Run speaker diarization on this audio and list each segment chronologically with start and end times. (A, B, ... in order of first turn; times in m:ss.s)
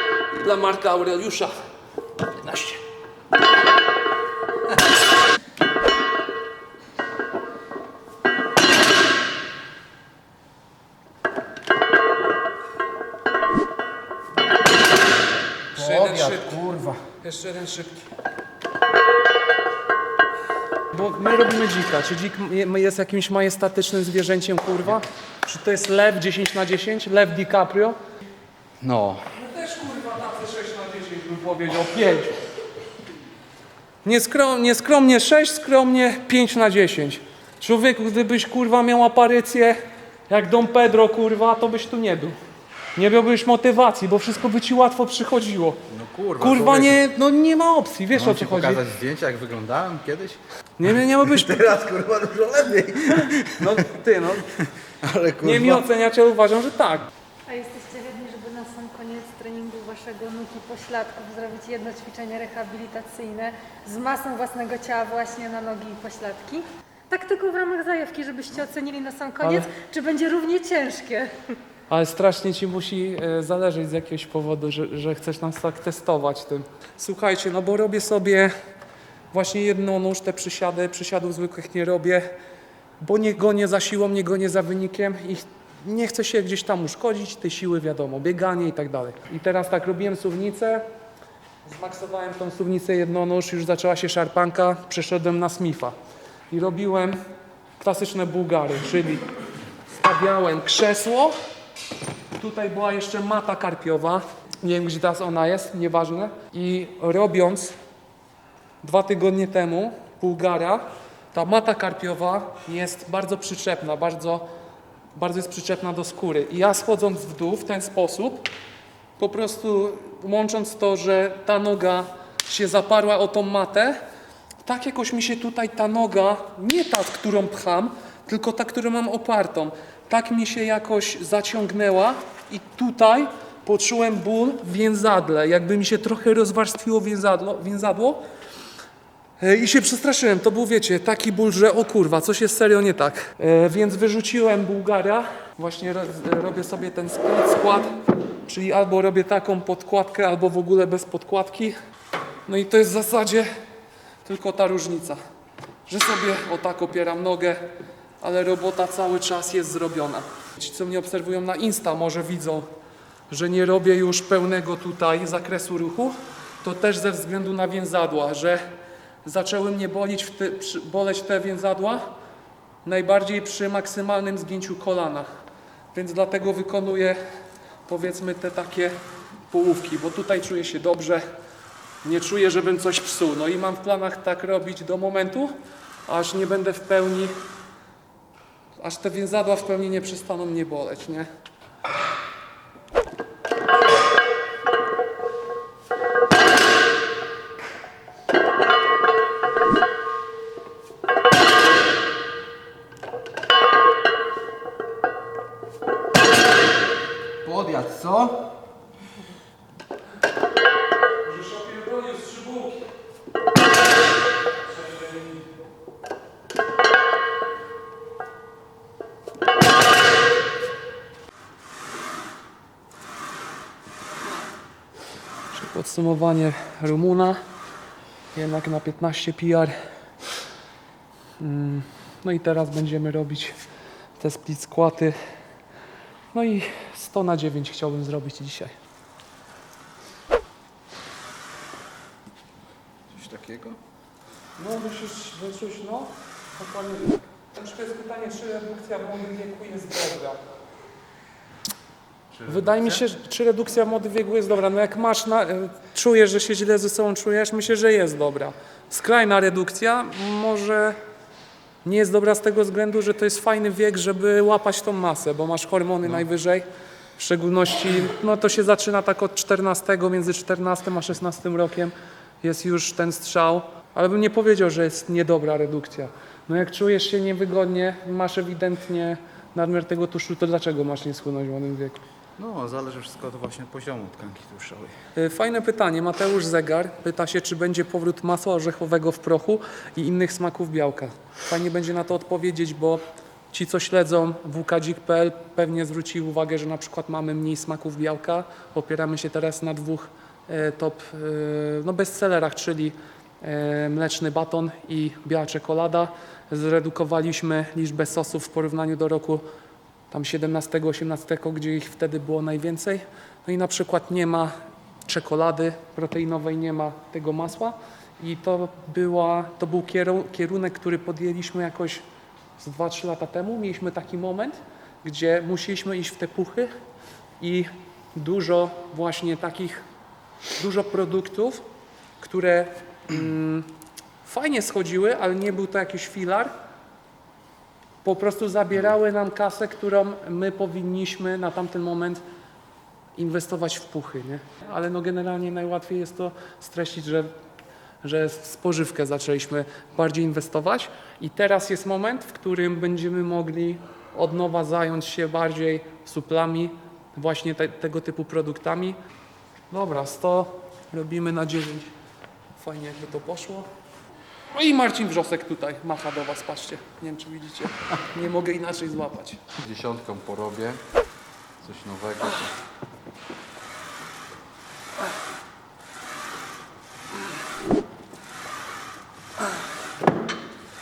0:00.3-0:01.6 A
0:02.4-0:02.8 A
0:15.8-0:17.0 B
0:15.8-0:16.6 A
0:17.2-0:18.1 A
0:20.9-0:28.0 A
0:28.8-0:29.2 B
0:29.3-0:32.4 A
0:34.0-0:42.4 A
0:43.0-0:45.8 A
0:45.9-0:47.0 B
0:46.4-0:48.8 A
0:48.1-0:50.4 B
0:50.8-0:51.6 A
0:51.2-0:53.8 B
0:53.2-0:54.5 A
0:55.0-0:55.8 B
0:55.4-0:57.1 A
0:57.5-1:11.4 C
1:09.4-1:09.7 A
1:11.9-1:18.5 A
1:19.3-1:22.3 A
1:23.0-1:30.8 A
1:31.6-1:36.0 A
1:36.5-1:37.2 A
1:37.8-1:39.2 A
1:39.9-1:41.4 A
1:42.4-1:47.7 A
1:48.8-1:54.4 A
1:55.2-1:58.5 A
1:59.2-2:04.0 A
2:04.6-2:18.2 A
2:19.4-2:31.8 A
2:32.5-2:33.5 A
2:34.2-2:35.2 A
2:35.9-2:37.7 A
2:38.2-2:42.7 A
2:43.3-2:48.6 A
2:49.2-2:52.1 A
2:52.8-2:55.3 A
2:55.9-2:57.2 A
2:57.9-2:59.0 A
2:59.5-3:01.3 A
3:02.0-3:05.6 A
3:06.1-3:07.3 A
3:08.8-3:11.3 A
3:27.4-3:28.6 B
3:31.2-3:32.9 A
3:34.7-3:35.5 A
3:45.5-3:47.4 A
3:48.3-3:49.8 A
3:51.4-3:53.6 A
3:54.2-3:55.2 A
3:56.3-3:58.8 A
4:03.1-4:03.8 B
4:04.6-4:10.4 A
4:12.3-4:13.0 B
4:12.5-4:21.0 A
4:21.8-4:26.6 A
4:27.2-4:42.0 A
4:42.4-4:45.0 B
4:45.2-5:09.4 A
5:10.1-5:14.5 A
5:15.1-5:22.0 A
5:22.6-5:26.7 A
5:27.4-5:29.8 A
5:30.6-5:31.6 A
5:32.2-5:33.7 A
5:34.2-5:36.5 A
5:38.0-5:42.2 A
5:43.2-5:47.3 A
5:48.0-5:59.0 A
5:59.7-6:01.9 A
6:02.6-6:03.7 A
6:04.5-6:09.4 A
6:09.6-6:10.8 B
6:11.6-6:12.6 B